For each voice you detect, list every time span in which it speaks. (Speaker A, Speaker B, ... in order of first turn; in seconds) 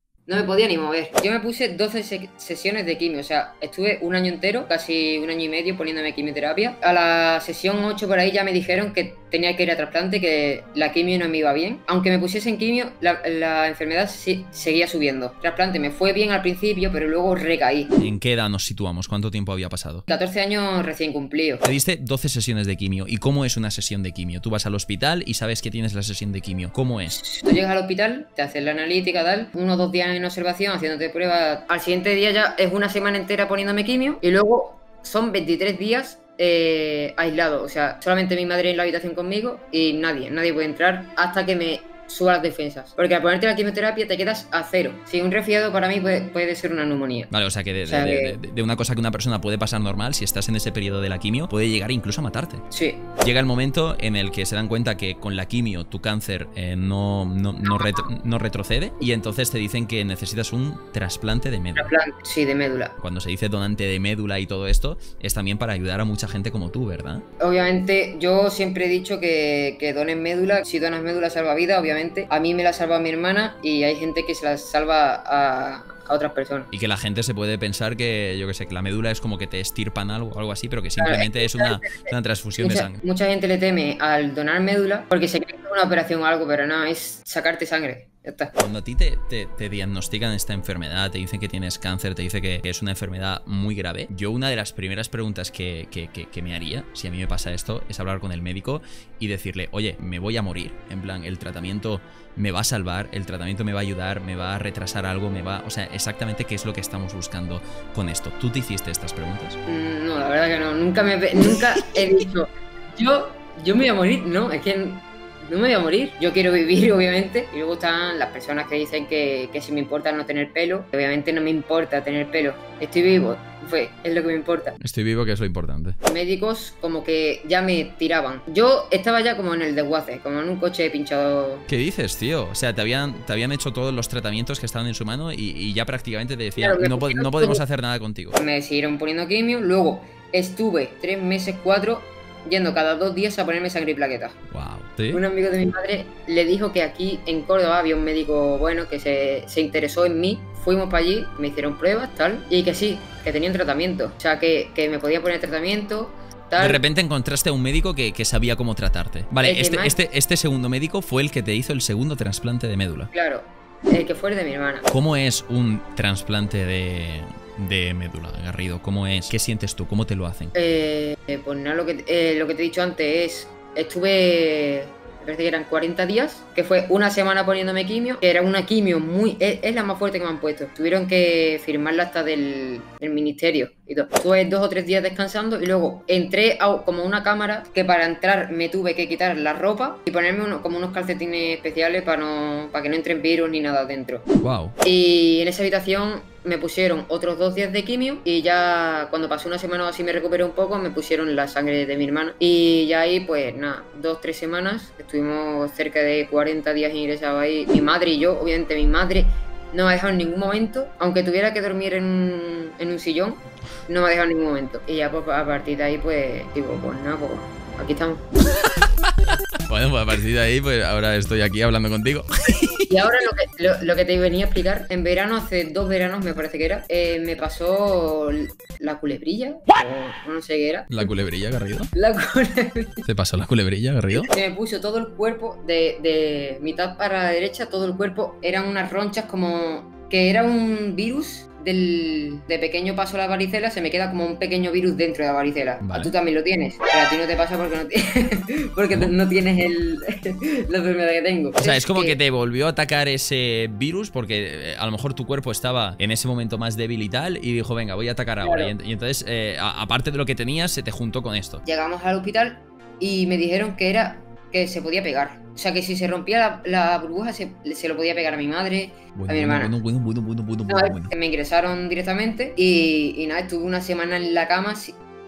Speaker A: 0.3-17.9, 20.1-21.6, 27.1-47.3, 47.9-48.4, 52.7-53.0, 57.6-58.0, 61.8-62.9, 67.4-76.7, 81.0-88.5, 109.7-124.8, 126.0-131.7, 136.6-137.6, 138.4-144.3, 145.1-156.8, 159.4-160.0, 163.1-164.8, 170.5-194.2, 194.8-218.2, 222.9-231.1, 231.9-233.0, 234.1-252.2, 258.4-258.7, 261.6-269.7, 270.7-275.0
Speaker B: 18.0-20.0, 21.6-27.2, 47.3-52.6, 53.2-61.9, 63.0-67.2, 76.7-83.0, 88.6-109.6, 124.8-126.0, 131.7-138.4, 144.5-145.2, 156.6-163.1, 164.9-170.5, 194.4-194.7, 219.7-222.9, 230.9-231.9, 233.0-234.3, 245.8-246.1, 251.6-261.6, 269.1-271.1